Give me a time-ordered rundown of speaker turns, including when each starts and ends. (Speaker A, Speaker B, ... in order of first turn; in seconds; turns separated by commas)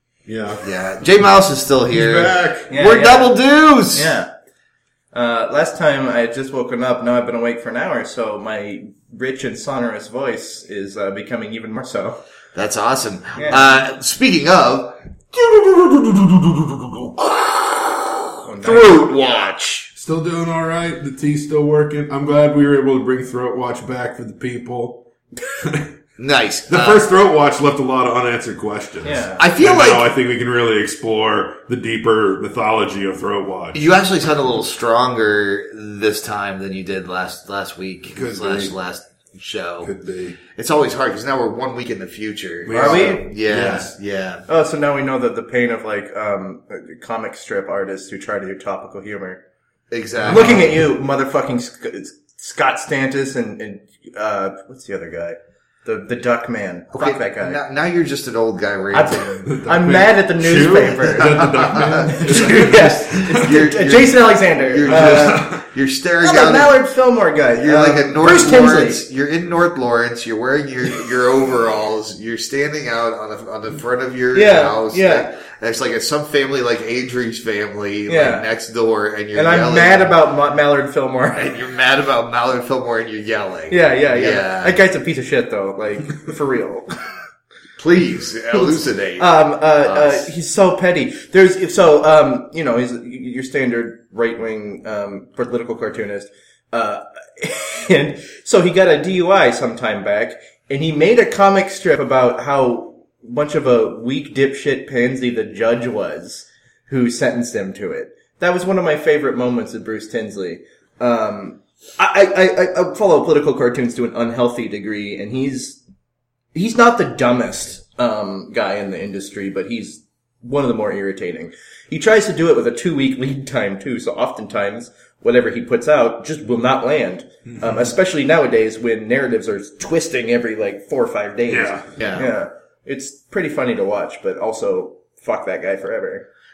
Speaker A: 0.3-0.6, Speaker B: 0.6-4.1, Speaker A: 1.9-2.7, Speaker C: 2.7-3.4, Speaker C: 3.9-4.3, Speaker C: 5.1-12.2, Speaker B: 12.5-19.9, Speaker C: 13.4-13.6, Speaker C: 18.4-19.1, Speaker A: 20.0-25.0, Speaker A: 25.6-25.9, Speaker B: 26.2-27.1, Speaker A: 26.7-33.8, Speaker C: 29.0-29.4, Speaker B: 29.4-30.1, Speaker B: 33.7-39.9, Speaker A: 38.1-38.7, Speaker A: 39.8-40.4, Speaker B: 40.5-44.4, Speaker A: 42.6-43.9, Speaker C: 42.7-43.2, Speaker C: 44.5-49.4, Speaker B: 49.9-50.7, Speaker A: 50.2-50.6, Speaker C: 50.3-57.6, Speaker B: 56.9-59.4, Speaker C: 58.9-61.4, Speaker A: 59.4-63.4, Speaker B: 61.0-66.8, Speaker C: 62.1-65.5, Speaker A: 64.8-65.6, Speaker C: 66.2-69.0, Speaker B: 67.6-80.1, Speaker C: 74.3-75.3, Speaker C: 78.1-78.5, Speaker C: 79.3-81.5, Speaker B: 81.3-84.8, Speaker C: 83.7-86.9, Speaker B: 87.8-89.2, Speaker C: 88.5-115.8, Speaker B: 89.8-90.3, Speaker C: 116.5-136.2, Speaker A: 127.5-127.9, Speaker A: 131.5-131.9, Speaker B: 131.9-132.3